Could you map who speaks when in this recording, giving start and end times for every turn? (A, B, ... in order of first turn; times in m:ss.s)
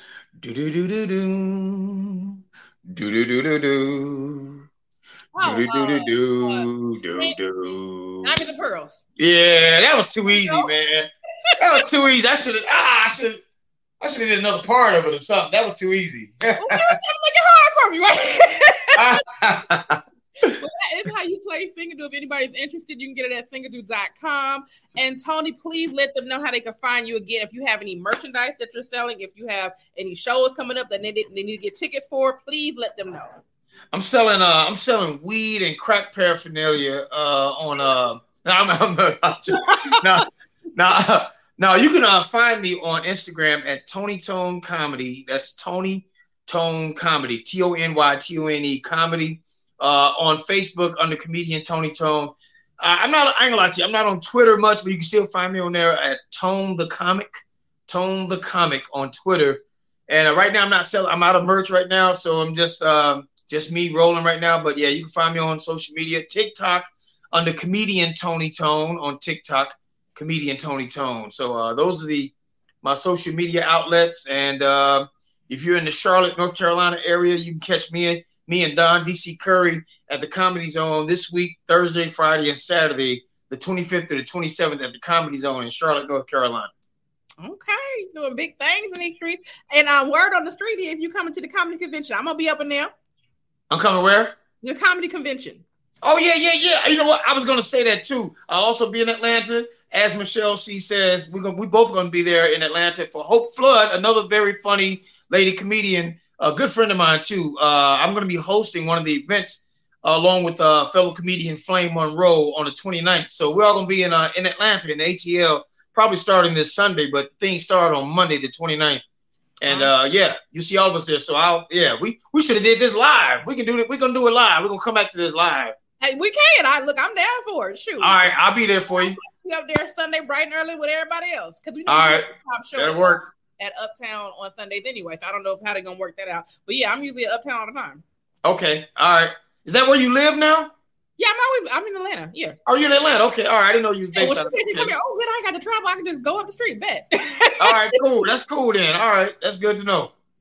0:00.4-0:02.3 A
0:02.9-0:04.6 A
0:05.4-0:07.4 B
0:05.4-0:08.3 A
0:08.2-0:09.0 B
0:09.2-0:13.4 A
0:10.3-0:10.7 B
0:14.0-0:16.9 A
0:16.6-0:19.0 B
0:19.0-0:20.6 A
0:20.5-0:33.4 B
0:33.9-0:57.3 A
0:39.6-0:40.2 B
0:57.9-1:26.7 A
1:27.4-1:32.9 B
1:33.7-1:34.3 A
1:34.6-1:35.6 B
1:36.0-1:59.1 A
1:59.6-2:05.8 A
1:59.6-1:59.9 B
2:06.0-2:08.2 B
2:08.0-2:09.2 A
2:08.9-2:18.0 B
2:11.9-2:13.3 A
2:18.4-2:20.7 A
2:21.2-2:22.6 B
2:22.7-2:25.0 A
2:24.2-2:27.8 B
2:27.6-2:30.1 A